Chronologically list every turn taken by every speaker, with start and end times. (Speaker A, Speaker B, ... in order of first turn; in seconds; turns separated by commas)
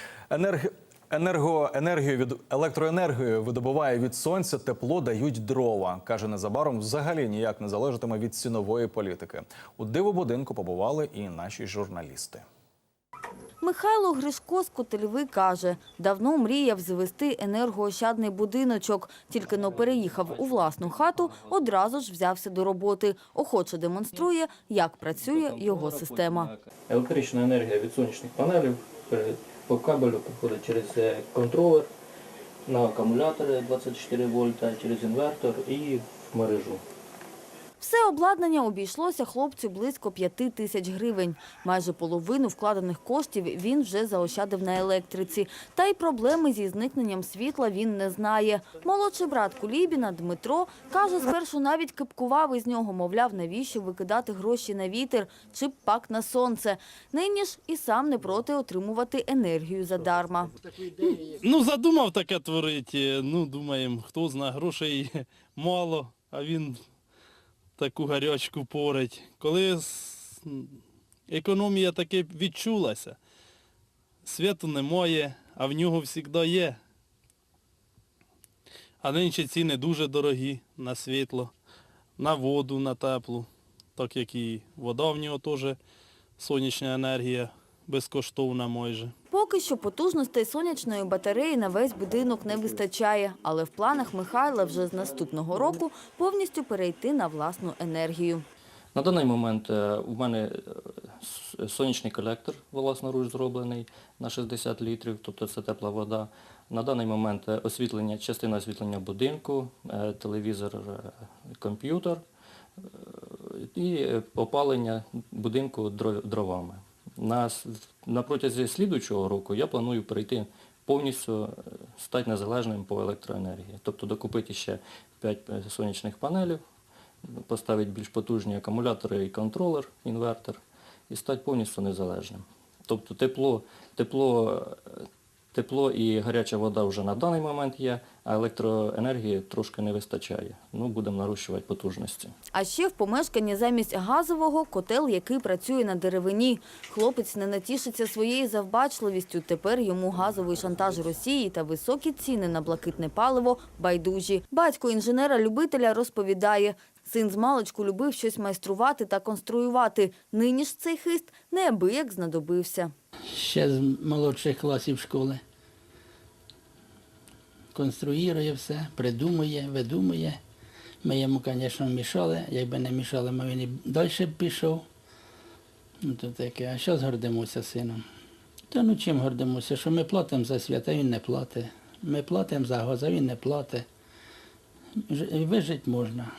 Speaker A: 0.3-12.4, Speaker B: 13.6-26.5, Speaker C: 19.8-21.5, Speaker C: 25.2-31.9, Speaker C: 32.7-36.8, Speaker B: 37.8-60.5, Speaker D: 61.0-66.8, Speaker D: 67.8-70.8, Speaker D: 71.3-73.2, Speaker D: 74.2-76.8, Speaker D: 79.0-81.5, Speaker D: 82.2-85.8, Speaker D: 86.4-89.1, Speaker B: 89.3-98.4, Speaker C: 98.9-112.2, Speaker C: 112.8-126.6, Speaker C: 127.2-142.3, Speaker B: 142.5-162.9, Speaker E: 163.3-165.4, Speaker E: 167.7-170.4, Speaker E: 171.0-174.8, Speaker E: 176.0-178.0, Speaker E: 178.7-183.8, Speaker E: 185.1-186.3